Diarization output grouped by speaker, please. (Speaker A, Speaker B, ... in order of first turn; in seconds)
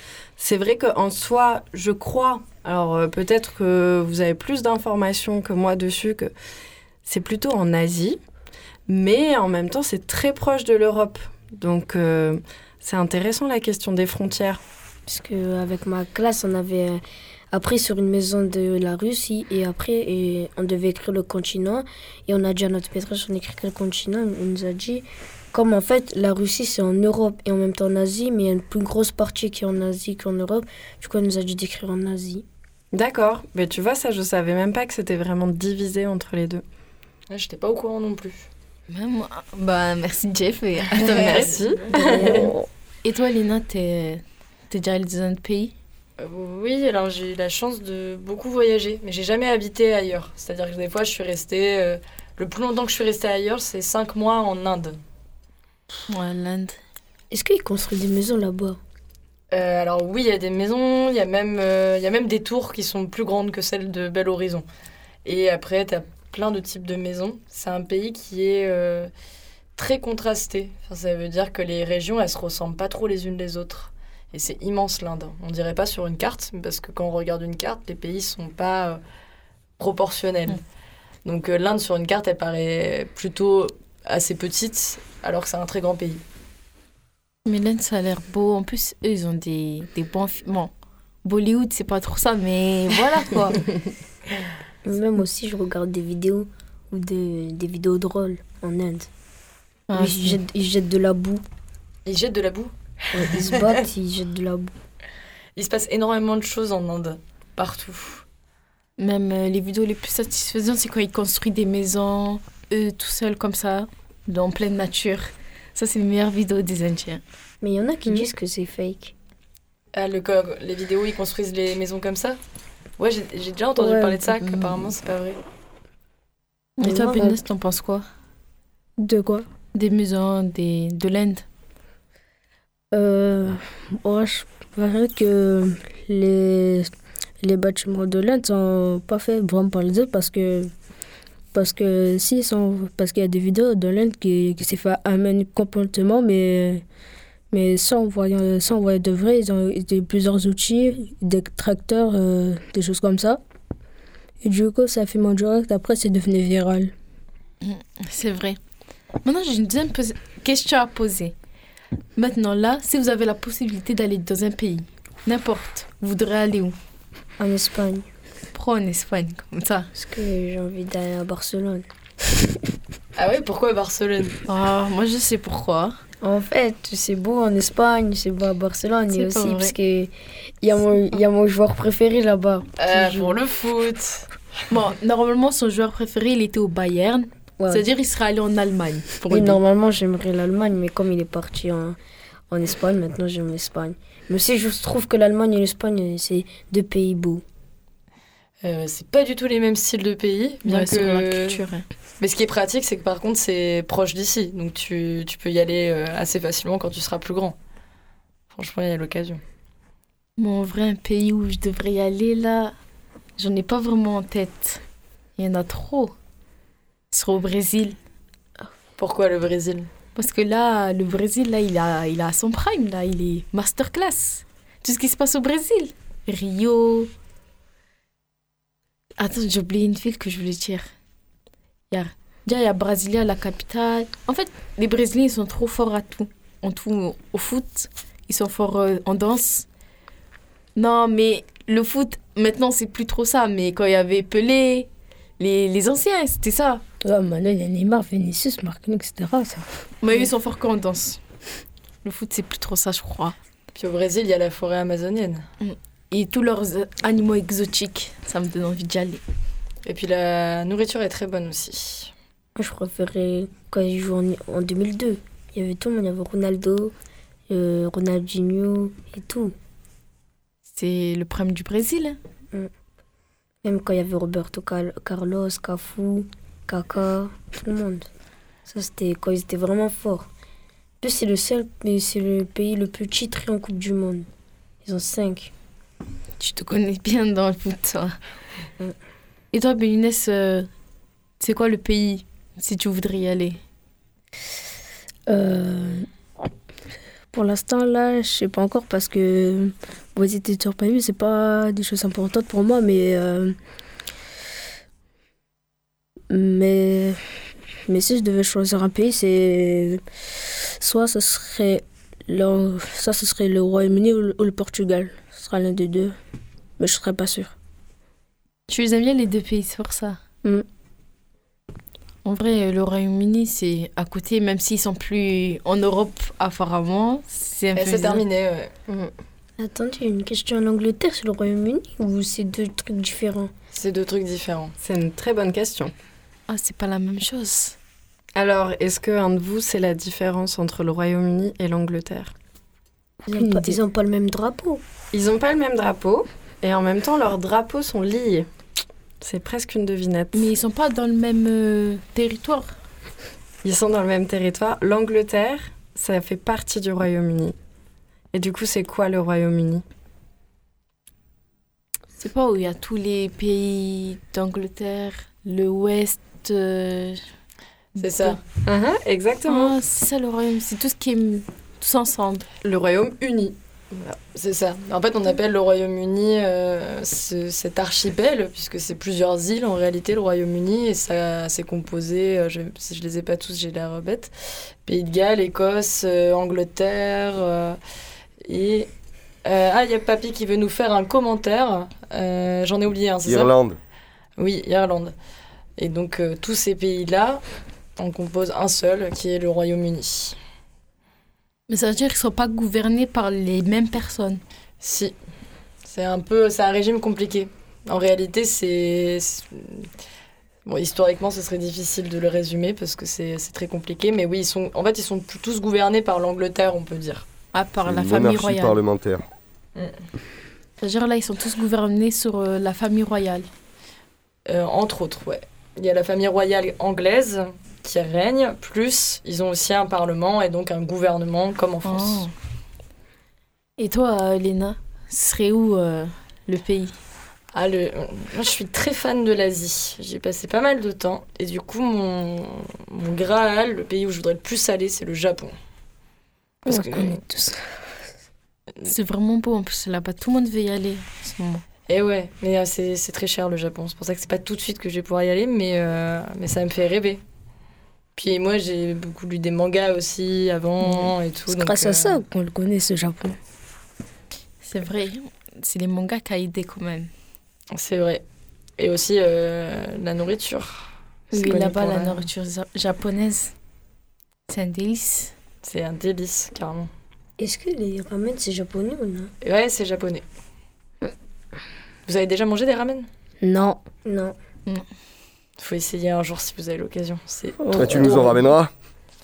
Speaker A: 0.4-6.3, 7.0-8.2, 8.9-14.6, 32.9-36.6, 41.0-42.5, 328.9-329.1, 334.8-335.9, 338.4-342.3, 345.1-348.5, 349.2-350.5, 353.6-357.6, 358.3-359.8, 368.6-369.8, 372.6-374.2
Speaker B: 15.1-17.0, 17.5-32.5, 57.3-58.8, 94.8-99.1, 100.0-101.4, 103.1-104.7, 117.6-119.1, 126.9-127.3, 167.4-168.1, 169.9-171.9, 176.2-183.3, 187.6-187.8, 189.3-192.0, 192.5-197.4, 262.6-266.9, 267.5-269.5, 273.6-278.1, 278.7-280.3, 281.0-284.3, 284.9-285.5, 329.6-333.5, 343.3-344.8, 477.4-479.3, 484.1-484.4
Speaker C: 37.3-38.5, 41.0-41.6, 46.2-55.0, 59.5-64.7, 65.2-69.1, 69.8-79.0, 79.8-80.6, 81.2-86.2, 102.1-102.7, 103.4-103.7, 105.6-108.2, 120.0-122.4, 123.0-125.4, 173.2-174.4, 182.8-184.3, 198.6-201.6, 202.2-207.6, 208.5-209.4, 219.0-219.9, 253.8-255.5, 259.9-262.1, 327.8-328.7, 333.7-334.7, 368.0-368.4, 374.4-387.8, 388.4-388.9, 389.4-393.5, 394.4-395.1, 395.8-397.4, 398.0-400.4, 404.8-405.1, 405.9-409.9, 410.7-417.3, 424.5-432.3, 437.5-445.5, 446.7-447.2, 451.9-457.2, 458.2-462.2, 467.7-468.2, 468.8-472.3, 475.6-476.9, 479.4-480.2, 482.1-483.1, 485.6-488.4
Speaker D: 38.9-41.6, 43.0-45.7, 56.1-56.8, 87.5-90.7, 91.2-93.6, 99.9-100.4, 109.0-117.2, 126.8-128.1, 129.8-131.4, 157.6-158.6, 159.2-161.4, 162.2-166.8, 168.5-169.9, 174.5-176.0, 179.1-179.8, 184.7-189.6, 200.7-201.9, 210.4-212.7, 213.4-214.8, 215.4-216.1, 217.1-218.0, 220.2-227.1, 229.2-230.9, 231.9-239.7, 240.8-246.8, 250.0-251.2, 252.0-253.3, 255.6-259.2, 270.7-272.2, 286.4-288.2, 289.5-290.7, 291.4-293.6, 318.7-320.2, 322.2-328.2, 336.5-337.8, 350.3-352.8, 362.2-367.2, 368.0-368.4, 369.5-372.5, 401.7-404.4, 417.5-418.8, 420.8-423.5, 431.9-432.3, 433.8-436.9, 448.9-451.6, 464.6-467.1, 471.3-473.5, 474.5-475.3
Speaker E: 42.0-42.7, 123.8-124.3, 127.0-127.4, 129.0-129.5, 132.9-136.9, 137.4-140.7, 141.5-146.8, 147.5-153.4, 154.4-156.9, 247.0-249.8, 295.3-296.1, 297.3-303.6, 306.3-307.2, 307.9-310.0, 310.8-316.2, 316.8-317.5, 343.3-343.8, 446.7-447.8, 461.5-463.4, 483.4-483.8, 487.6-488.4
Speaker F: 393.2-393.8, 417.9-419.2, 487.8-488.7